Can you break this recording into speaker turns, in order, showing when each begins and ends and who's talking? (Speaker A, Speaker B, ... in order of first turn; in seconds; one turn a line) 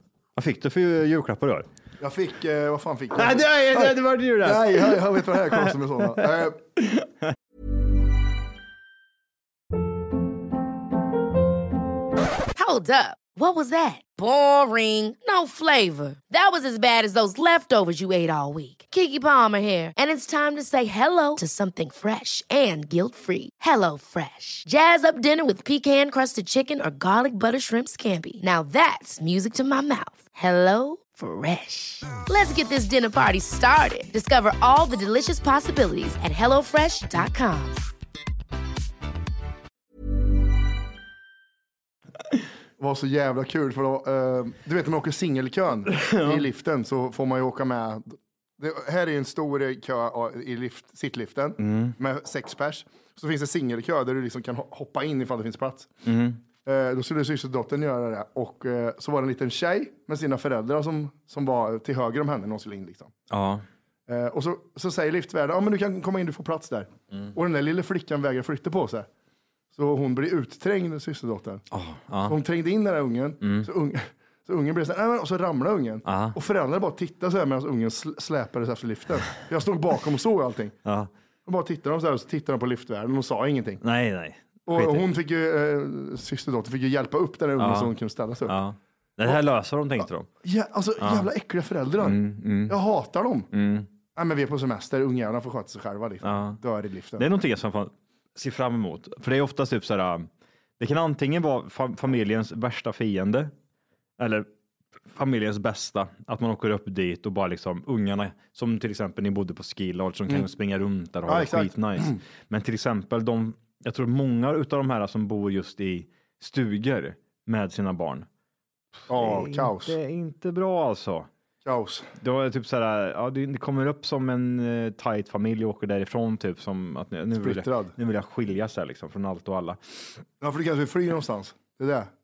Speaker A: 0.3-1.7
Speaker B: 2.0-6.6
Speaker A: 3.1-7.3
Speaker C: 12.6-37.8
Speaker B: 42.8-55.9
Speaker A: 45.9-46.4
Speaker A: 51.6-52.0
Speaker A: 56.0-56.4
Speaker B: 56.6-63.1
Speaker A: 63.3-63.6
Speaker B: 64.1-69.1
Speaker B: 69.7-71.6
Speaker A: 71.7-72.3
Speaker B: 72.2-80.7
Speaker A: 73.4-73.7
Speaker A: 76.0-76.4
Speaker A: 80.8-81.1
Speaker B: 81.5-83.8
Speaker A: 83.8-85.1
Speaker B: 84.7-88.5
Speaker A: 87.6-90.3
Speaker B: 90.4-93.5
Speaker A: 91.0-91.3
Speaker A: 92.0-92.8
Speaker A: 93.5-93.9
Speaker B: 94.1-97.2
Speaker A: 96.2-96.6
Speaker A: 97.2-103.5
Speaker A: 104.2-104.5
Speaker A: 105.1-118.3
Speaker B: 111.3-112.2
Speaker A: 119.1-121.3
Speaker B: 119.1-120.0
Speaker B: 121.6-122.1
Speaker A: 122.2-129.8
Speaker B: 127.4-127.9
Speaker B: 130.4-132.1